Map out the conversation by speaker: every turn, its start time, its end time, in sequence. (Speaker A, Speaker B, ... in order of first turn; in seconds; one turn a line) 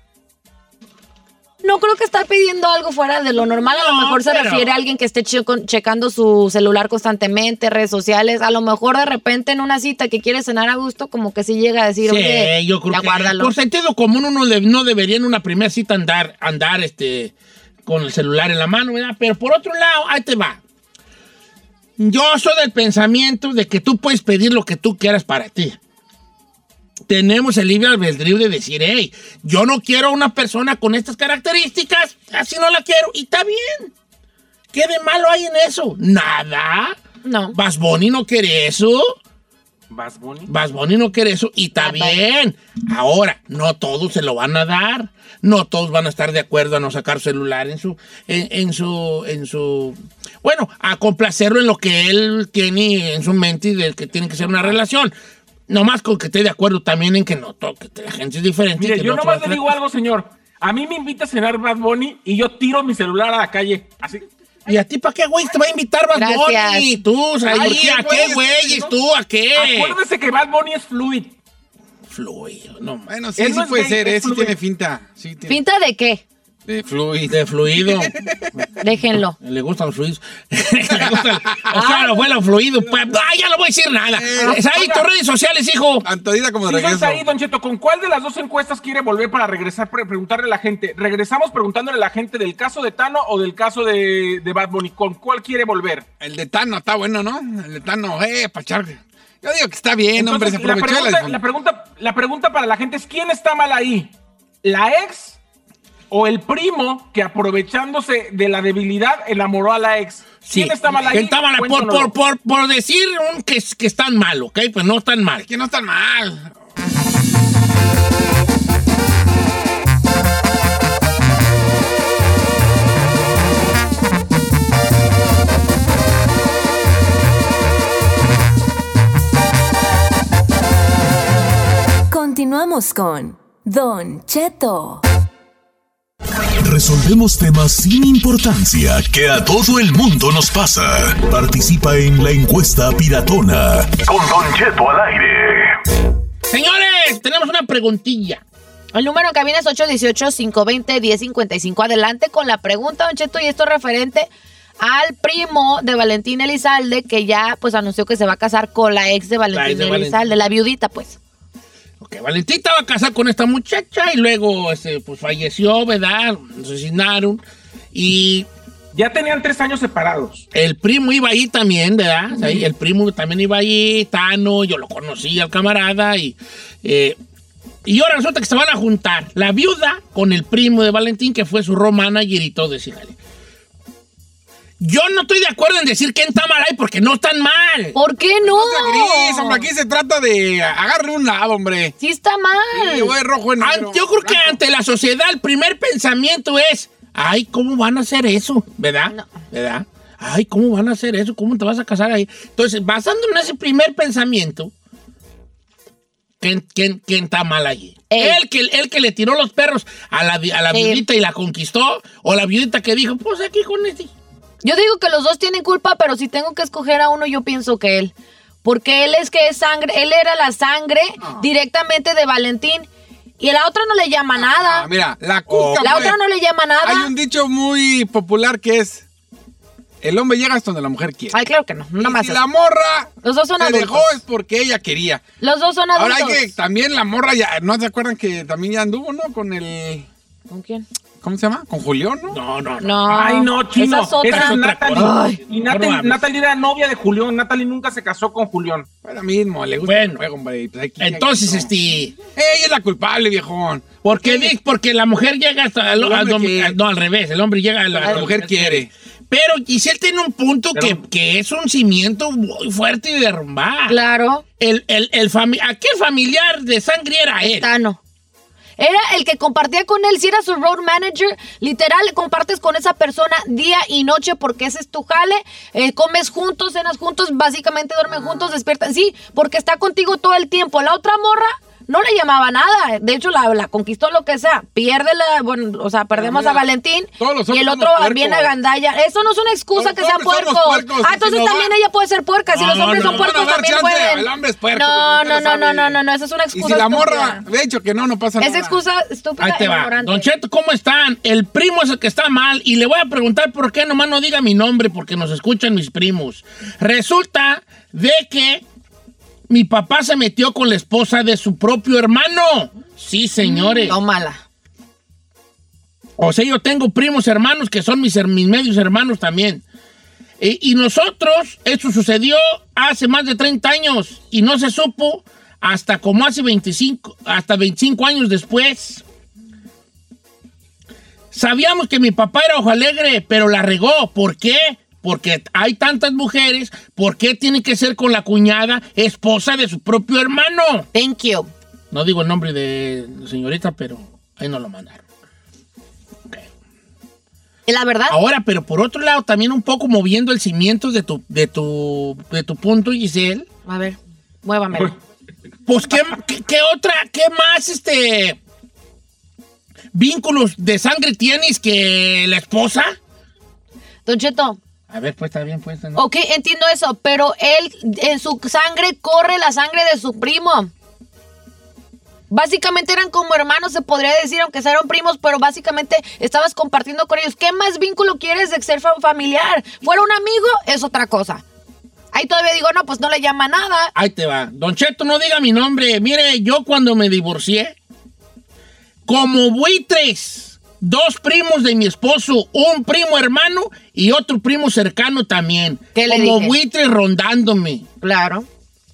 Speaker A: 1.6-13.5
Speaker B: 3.4-4.7
Speaker B: 12.0-17.3
Speaker B: 17.9-20.6
Speaker B: 22.0-25.8
Speaker B: 27.1-33.9
Speaker B: 34.7-37.0
Speaker A: 37.2-37.6
Speaker B: 37.5-39.2
Speaker C: 39.9-40.5
Speaker B: 40.5-55.1
Speaker A: 41.8-42.2
Speaker B: 55.7-59.8
Speaker C: 58.8-64.2
Speaker B: 64.7-70.0
Speaker A: 66.1-66.9
Speaker D: 67.5-68.9
Speaker C: 67.5-68.3
Speaker C: 69.5-71.4
Speaker B: 72.1-73.1
Speaker D: 73.1-75.6
Speaker C: 73.4-74.5
Speaker A: 75.5-76.2
Speaker D: 76.7-78.5
Speaker B: 77.3-78.7
Speaker A: 78.8-79.4
Speaker B: 79.3-86.1
Speaker D: 81.0-81.7
Speaker A: 81.7-82.2
Speaker D: 84.2-84.6
Speaker C: 84.7-85.0
Speaker D: 86.0-87.3
Speaker C: 86.7-96.1
Speaker D: 96.2-101.4
Speaker C: 100.2-105.4
Speaker C: 106.1-112.1
Speaker B: 110.5-115.5
Speaker D: 115.5-116.5
Speaker E: 132.1-135.0
Speaker F: 136.6-145.8
Speaker B: 146.5-148.4
Speaker A: 148.9-154.3
Speaker A: 154.8-161.2
Speaker B: 159.5-160.2
Speaker B: 162.0-167.4
Speaker B: 167.9-168.5
Speaker C: 168.9-170.4
Speaker B: 170.5-177.2
Speaker B: 177.8-183.2
Speaker B: 184.8-188.0
Speaker A: 187.9-189.7
Speaker D: 188.4-191.9
Speaker A: 192.0-193.2
Speaker D: 192.7-194.6
Speaker B: 193.6-204.7
Speaker B: 206.4-214.1
Speaker A: 208.1-208.4
Speaker A: 210.7-211.0
Speaker A: 214.6-218.1
Speaker A: 218.6-222.9
Speaker D: 221.2-221.4
Speaker A: 223.4-224.9
Speaker D: 224.4-226.2
Speaker B: 225.5-226.1
Speaker A: 225.7-227.1
Speaker D: 226.8-229.1
Speaker D: 230.0-231.4
Speaker A: 231.3-232.4
Speaker D: 232.0-235.2
Speaker A: 233.2-234.1
Speaker A: 235.4-236.5
Speaker D: 235.9-240.1
Speaker A: 240.5-240.8
Speaker D: 241.2-242.4
Speaker B: 242.3-243.1
Speaker A: 242.8-245.4
Speaker C: 243.1-248.9
Speaker B: 244.2-246.2
Speaker D: 249.0-251.7
Speaker B: 249.8-250.2
Speaker B: 251.0-252.2
Speaker D: 252.3-254.5
Speaker B: 254.0-264.0
Speaker D: 255.9-256.8
Speaker D: 257.9-258.9
Speaker A: 263.9-264.4
Speaker B: 264.6-267.7
Speaker A: 267.4-268.0
Speaker A: 268.8-297.4
Speaker D: 286.1-286.6
Speaker D: 287.2-288.5
Speaker D: 289.7-291.7
Speaker B: 292.5-293.4
Speaker D: 292.8-296.0
Speaker D: 296.5-298.8
Speaker A: 298.4-300.3
Speaker B: 299.4-308.6
Speaker B: 309.5-314.0
Speaker A: 313.4-314.4
Speaker B: 316.2-319.6
Speaker B: 320.4-329.0
Speaker B: 331.3-340.9
Speaker A: 340.9-341.5
Speaker B: 341.9-345.0
Speaker A: 347.7-348.2
Speaker B: 348.1-353.5
Speaker A: 353.7-354.9
Speaker B: 355.7-358.4
Speaker B: 359.9-363.0
Speaker A: 364.1-364.6
Speaker B: 364.9-366.0
Speaker A: 366.0-370.7
Speaker A: 372.3-381.4
Speaker A: 382.1-383.9
Speaker B: 383.9-387.8
Speaker B: 389.1-397.9
Speaker A: 395.9-396.6
Speaker A: 398.0-398.5